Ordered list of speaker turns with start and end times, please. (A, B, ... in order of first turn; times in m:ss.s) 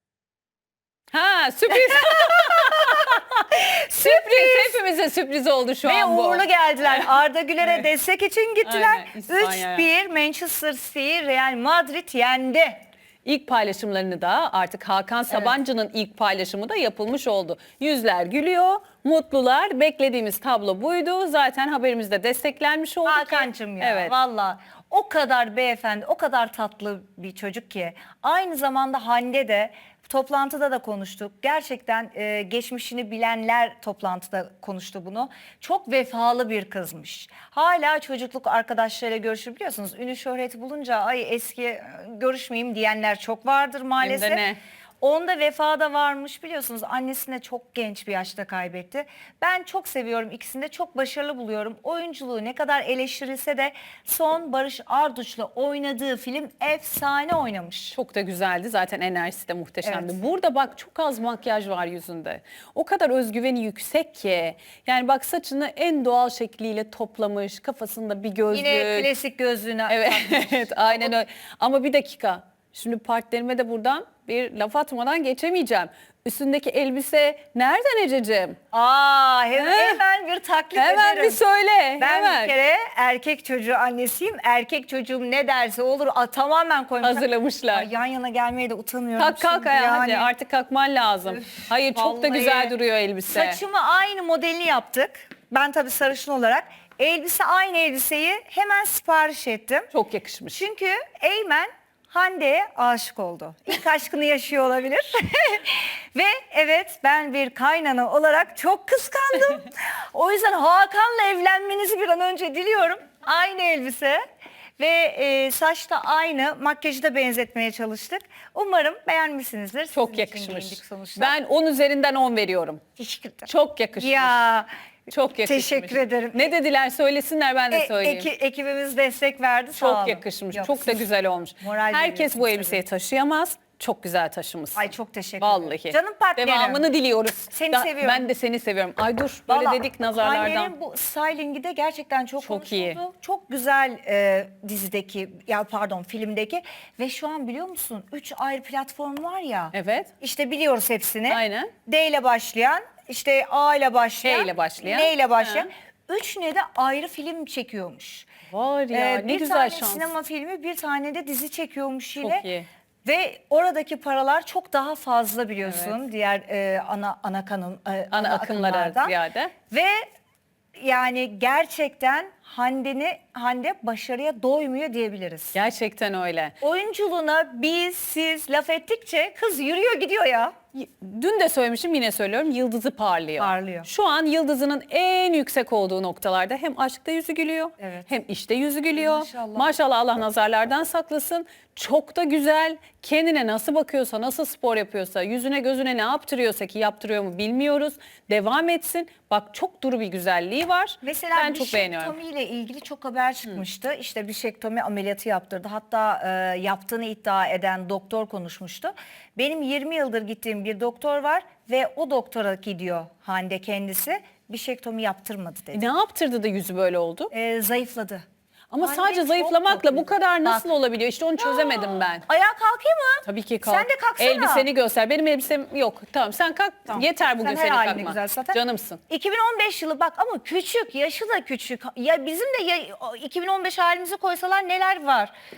0:01.1-0:07.1 A
0:02.0-0:04.8 B
0:05.8-0:12.8 B
0:08.6-0:09.9 A
0:13.2-0:24.1 A
0:15.3-0:15.6 B
0:23.1-0:44.4 B
0:44.0-0:44.6 A
0:45.0-0:58.0 B
0:57.9-1:09.1 A
0:59.8-1:00.2 B
1:08.5-1:11.2 B
1:09.9-1:18.6 A
1:18.7-1:21.4 B
1:19.6-1:20.0 A
1:20.8-1:22.5 A
1:22.0-1:30.3 B
1:27.0-1:27.9 A
1:29.2-1:33.6 A
1:31.3-1:32.8 B
1:33.3-1:39.9 B
1:39.9-1:40.6 A
1:40.5-1:54.2 B
1:54.8-2:01.4 B
1:59.9-2:02.8 A
2:03.0-2:04.7 B
2:03.5-2:04.4 A
2:05.1-2:08.3 A
2:05.4-2:06.5 B
2:07.7-2:11.0 B
2:09.8-2:14.8 A
2:11.6-2:12.8 B
2:14.8-2:16.8 B
2:15.4-2:20.7 A
2:17.5-2:18.3 B
2:19.5-2:38.3 B
2:22.4-2:23.0 A
2:29.7-2:30.1 A
2:31.3-2:31.7 A
2:34.2-2:35.7 A
2:38.5-2:40.1 A
2:38.9-2:42.5 B
2:42.2-2:42.7 A
2:43.0-2:49.2 B
2:45.6-2:46.0 A
2:48.1-2:49.5 A
2:49.7-2:50.0 B
2:50.8-2:55.6 B
2:55.5-2:56.6 A
2:56.6-3:00.5 B
3:00.7-3:22.1 A
3:03.4-3:03.9 B
3:07.8-3:08.1 B
3:09.0-3:09.7 B
3:21.0-3:35.9 B
3:35.7-3:37.3 A
3:37.3-3:38.2 B
3:38.7-3:42.2 A
3:38.8-3:40.7 B
3:41.4-3:44.7 B
3:43.2-3:49.0 A
3:46.9-3:55.3 B